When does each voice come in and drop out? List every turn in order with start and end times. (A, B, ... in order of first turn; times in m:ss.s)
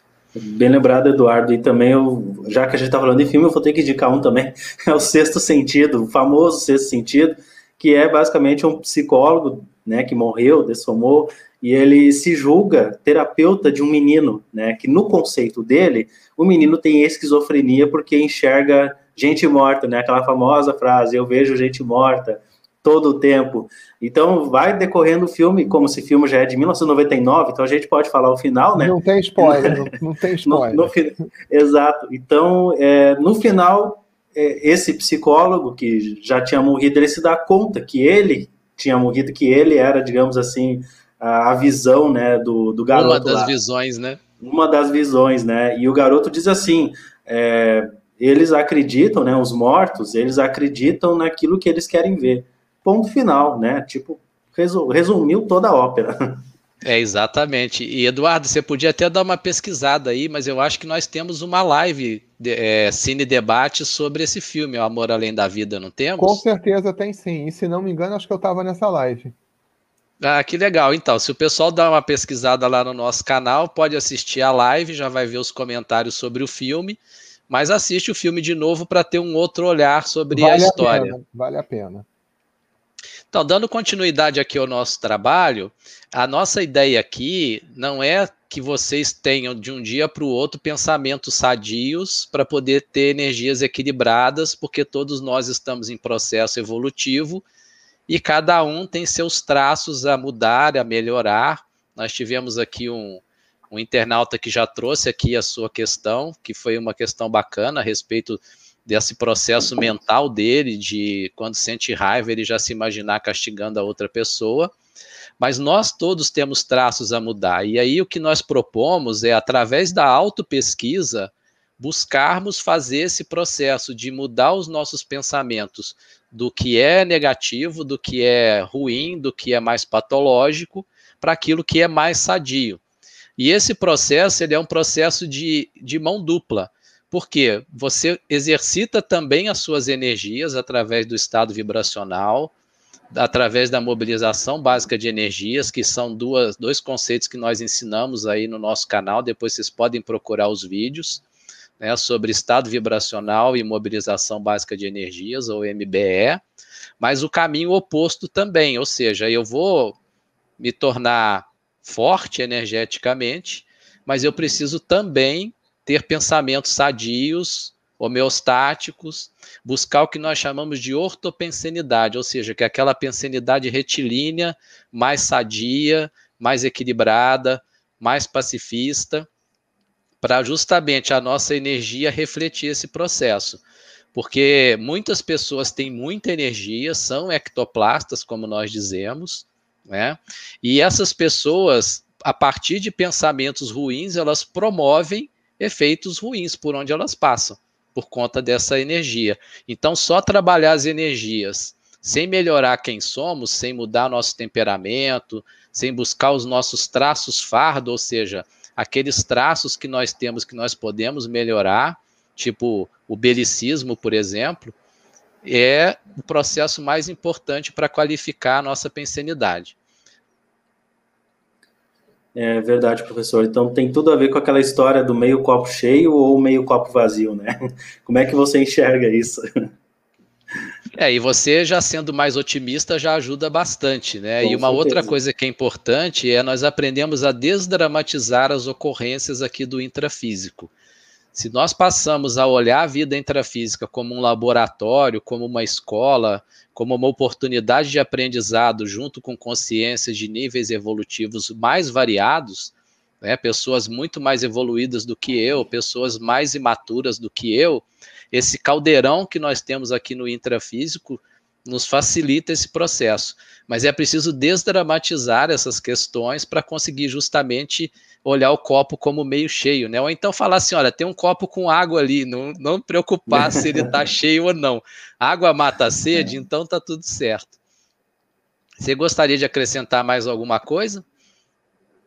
0:00.4-0:29.8 A
0:28.8-0:30.9 B
0:30.4-0:43.5 A
0:42.9-0:44.2 C
0:44.4-0:56.4 A
0:56.8-1:06.4 C
1:06.2-1:09.3 B
1:10.2-1:21.1 C
1:20.3-1:22.0 B
1:23.3-1:37.4 C
1:38.1-1:54.7 C
1:55.4-2:12.8 C
2:13.4-2:22.5 C
2:23.1-2:31.2 C
2:31.8-2:36.4 C
2:37.0-2:40.0 C
2:40.6-2:59.3 C
3:00.2-3:03.6 C
3:04.1-3:34.7 C
3:35.4-3:39.7 C
3:42.3-3:47.5 A
3:48.0-3:49.4 A
3:51.0-4:00.7 C
3:54.4-3:55.2 A
4:01.3-4:37.5 C
4:33.3-4:33.9 A
4:38.8-4:41.0 C